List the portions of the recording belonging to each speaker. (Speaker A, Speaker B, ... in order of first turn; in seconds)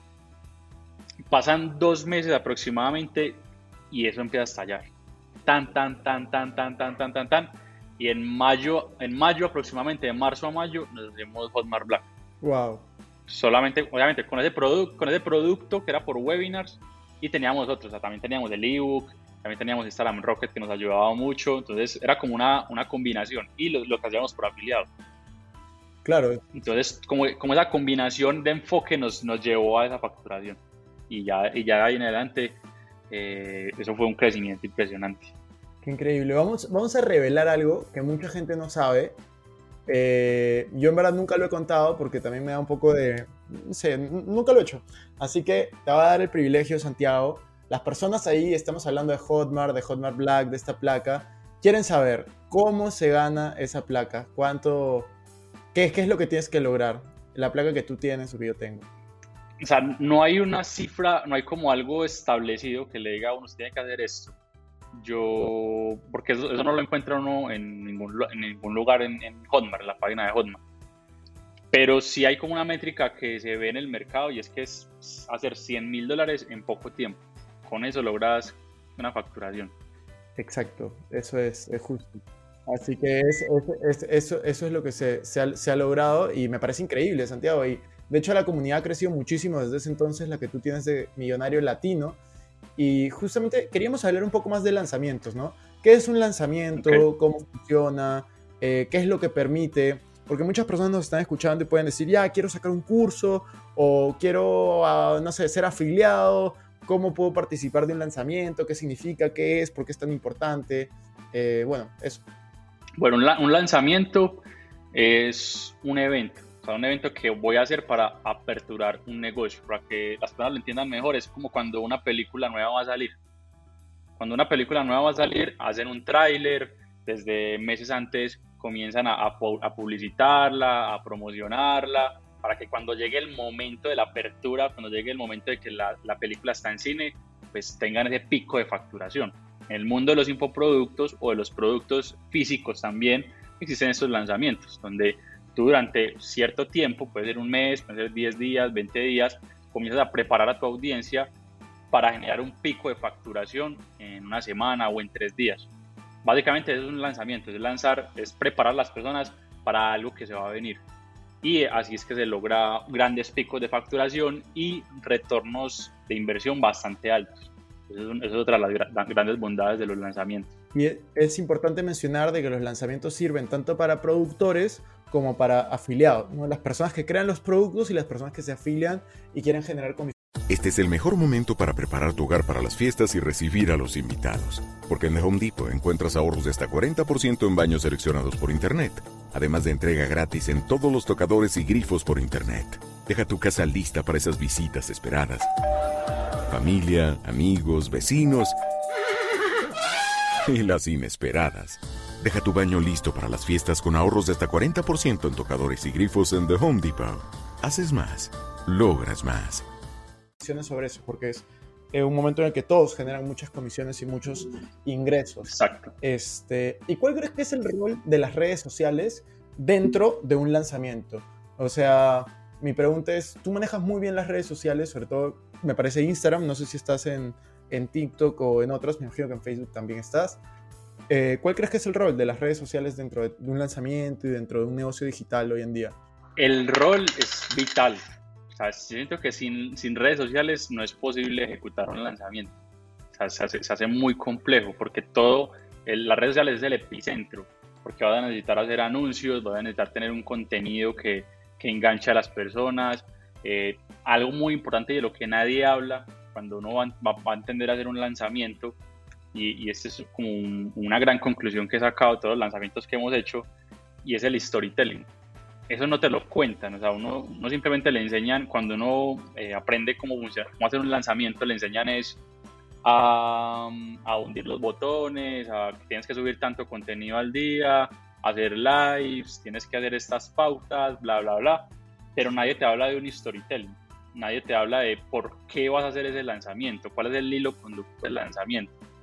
Speaker A: 1.3-4.9, 5.5-12.1, 13.3-24.9, 26.5-35.3, 59.6-64.3, 64.9-70.6, 71.7-79.7, 96.8-97.1, 113.0-123.2, 124.2-151.3, 151.9-155.7, 156.2-160.8, 161.4-170.5, 215.5-215.9, 236.4-242.6, 243.1-258.8, 259.3-263.5, 264.0-265.1, 265.7-272.2, 272.8-288.8
Speaker B: 12.4-12.9, 26.0-26.4, 35.8-39.2, 39.9-55.1, 55.7-58.9, 80.4-92.2, 92.8-112.2, 170.7-180.1, 210.4-230.4, 231.1-235.9
Speaker C: 180.5-195.5, 196.5-198.6, 200.4-209.7